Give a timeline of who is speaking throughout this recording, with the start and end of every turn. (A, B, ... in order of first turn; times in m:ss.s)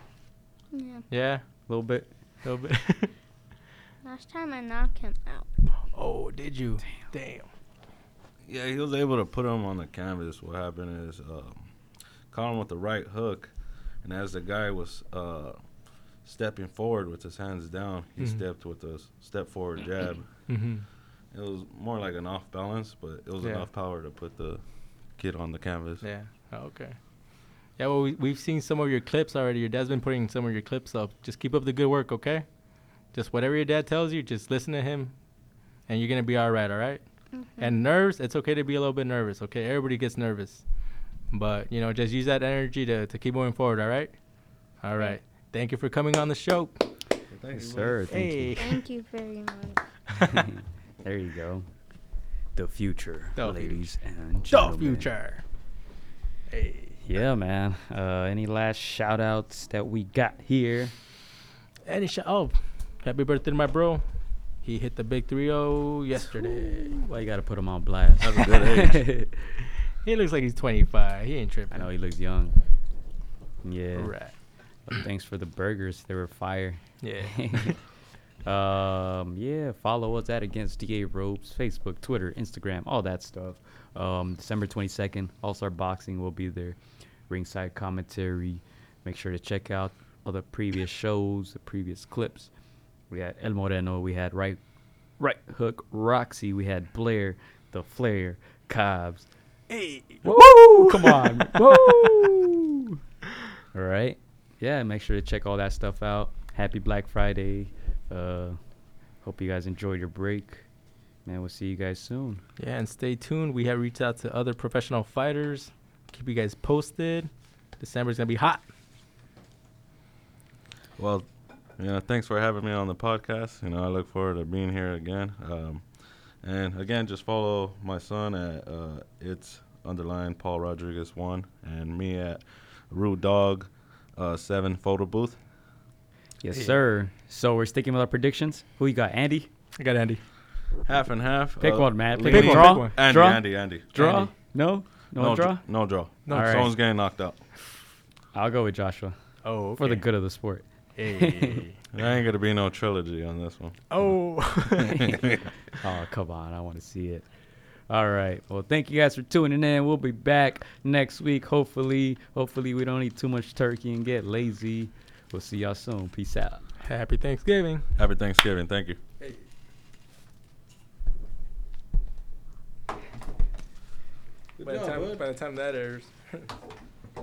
0:00.7-0:01.1 A
0:01.1-0:01.4 B
0:01.7-0:02.1 C
0:02.4-0:03.1 B
0:04.0-0:05.5 A
0:05.9-0:07.5 B
0:08.4-0:11.7 D
0:12.3-0:13.5 D
0:14.0-0:15.6 D
0:16.2-0:20.3 D
0:20.5-0:20.8 B
0:21.3-0:24.6 D
0:23.4-0:23.7 B
0:25.1-0:26.0 D
0:26.0-0:27.0 B
0:27.8-0:32.4 B
0:33.1-0:35.1 B
0:35.9-0:37.0 B
0:37.3-0:37.8 A
0:37.6-0:40.6 B
0:41.3-0:44.1 B
0:44.8-0:46.8 B
0:47.3-0:48.0 D
0:47.5-0:48.6 C
0:48.1-0:48.8 B
0:48.6-0:49.8 A
0:50.3-0:51.7 C
0:52.5-0:55.1 C
0:53.4-0:53.8 B
0:54.5-0:55.4 B
0:56.5-0:57.0 B
0:57.0-1:00.9 C
1:01.8-1:04.0 B
1:04.6-1:06.9 B
1:06.5-1:09.4 C
1:08.2-1:09.0 D
1:10.0-1:11.9 B
1:11.7-1:12.6 C
1:13.6-1:14.2 C
1:14.0-1:14.3 B
1:14.8-1:17.8 C
1:17.0-1:17.8 B
1:18.4-1:26.8 C
1:27.3-1:32.5 C
1:33.1-1:34.6 C
1:35.2-1:39.3 C
1:39.7-1:42.3 B
1:40.2-1:43.0 C
1:43.7-1:48.6 C
1:49.2-1:50.6 C
1:51.2-1:52.4 C
1:52.6-1:58.6 B
2:01.0-2:05.8 D
2:06.4-2:15.4 D
2:16.4-2:19.5 C
2:19.8-2:20.2 B
2:20.8-2:24.0 D
2:21.6-2:26.7 C
2:22.2-2:23.0 B
2:24.0-2:24.3 B
2:25.1-2:27.4 D
2:26.2-2:26.8 B
2:28.3-2:29.2 C
2:29.4-2:30.1 B
2:29.8-2:31.6 C
2:30.9-2:31.8 B
2:31.9-2:34.1 D
2:33.9-2:35.2 B
2:34.9-2:37.3 C
2:35.1-2:35.4 D
2:37.9-2:46.6 C
2:46.8-2:47.9 B
2:48.0-2:49.0 D
2:54.6-2:55.2 D
2:54.6-2:56.5 B